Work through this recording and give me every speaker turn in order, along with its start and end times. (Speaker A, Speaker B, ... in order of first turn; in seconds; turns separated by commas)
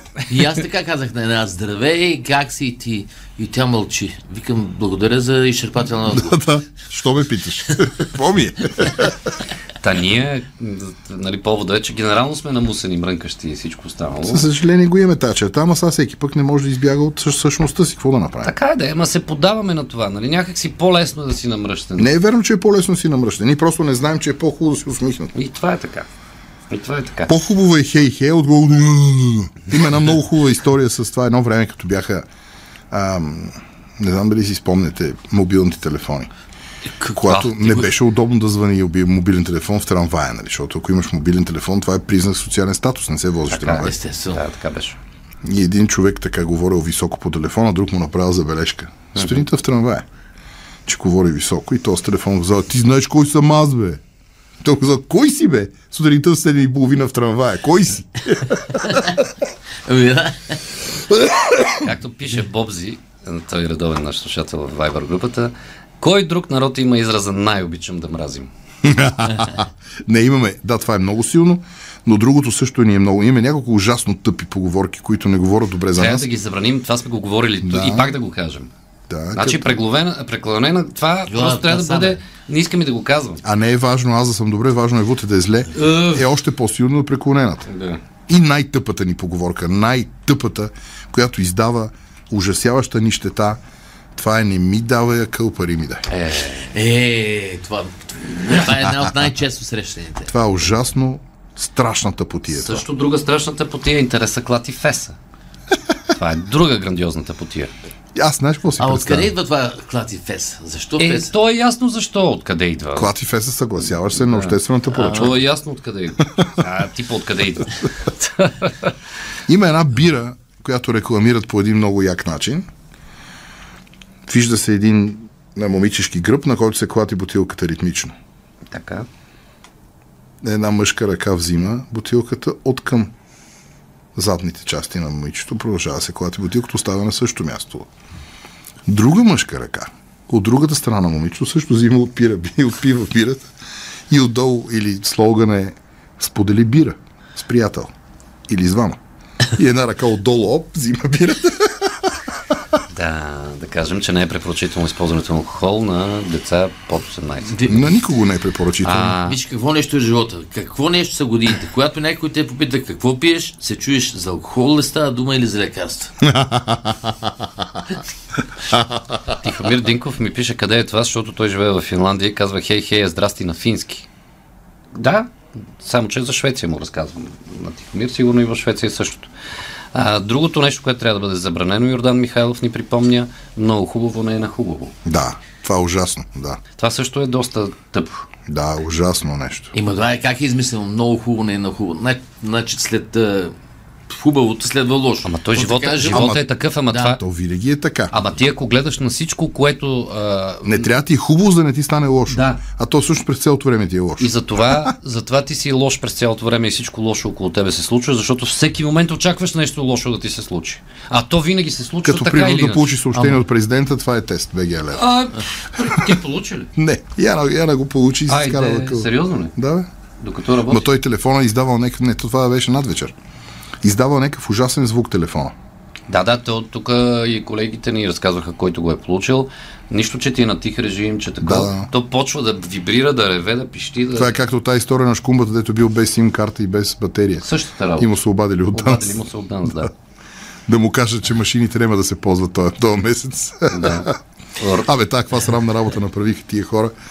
Speaker A: 0.3-6.4, Speaker B: 6.0-9.2, Speaker C: 9.8-14.5, Speaker B: 14.3-18.5, Speaker C: 18.4-22.1, Speaker B: 22.0-25.3, Speaker C: 25.3-26.1, Speaker C: 26.7-27.3, Speaker B: 27.3-32.2, Speaker B: 32.9-36.3, Speaker A: 37.0-37.2, Speaker B: 37.1-43.9, Speaker C: 37.3-37.9, Speaker C: 43.5-45.0, Speaker A: 43.8-44.4, Speaker B: 45.4-50.0, Speaker C: 49.1-49.4, Speaker B: 50.9-54.0, Speaker B: 54.6-59.3, Speaker A: 59.8-60.6, Speaker C: 61.8-68.5, Speaker B: 68.8-76.3, Speaker C: 75.9-78.7, Speaker B: 77.6-78.2, Speaker B: 79.1-79.8, Speaker C: 79.3-83.4, Speaker A: 81.3-82.2, Speaker B: 83.4-87.7, Speaker C: 85.7-86.3, Speaker C: 87.7-88.0, Speaker B: 88.3-93.6, Speaker B: 94.1-96.0, Speaker C: 96.1-96.7, Speaker A: 96.7-100.3, Speaker B: 100.3-102.8, Speaker C: 102.5-105.2, Speaker C: 106.1-107.7, Speaker B: 108.1-109.3, Speaker A: 108.8-111.3, Speaker C: 111.0-113.1, Speaker B: 112.9-115.4, Speaker C: 114.1-118.9, Speaker A: 115.0-115.4, Speaker B: 119.5-122.6, Speaker B: 124.3-128.1, Speaker C: 128.7-129.1, Speaker B: 130.4-133.1, Speaker B: 134.2-137.9, Speaker B: 138.9-143.4, Speaker B: 144.1-147.9, Speaker B: 148.5-149.0, Speaker B: 149.5-152.1, Speaker C: 152.9-157.6, Speaker A: 157.5-158.0, Speaker B: 157.7-159.2, Speaker C: 158.8-159.4, Speaker A: 159.2-166.1, Speaker B: 166.2-167.6, Speaker B: 168.7-169.2, Speaker C: 169.4-174.1, Speaker C: 174.9-179.3, Speaker C: 179.9-184.9, Speaker B: 185.0-186.6, Speaker C: 186.7-188.2, Speaker B: 188.5-189.7, Speaker A: 189.7-193.5, Speaker A: 194.1-196.2, Speaker C: 195.2-197.2, Speaker B: 196.1-196.4, Speaker A: 196.9-197.2, Speaker B: 197.0-198.2, Speaker C: 198.1-200.8, Speaker B: 200.6-204.3, Speaker C: 202.3-202.6, Speaker C: 204.2-213.0, Speaker B: 212.0-215.1, Speaker A: 213.1-213.4, Speaker C: 214.9-216.7, Speaker B: 216.8-219.9, Speaker C: 218.3-219.5, Speaker C: 220.2-220.9, Speaker B: 220.7-223.1, Speaker B: 223.8-225.5, Speaker C: 226.1-234.4, Speaker B: 231.4-231.9, Speaker B: 234.2-239.9, Speaker C: 237.4-238.1, Speaker C: 238.7-239.9, Speaker B: 240.7-244.2, Speaker C: 243.7-244.9, Speaker B: 244.8-246.9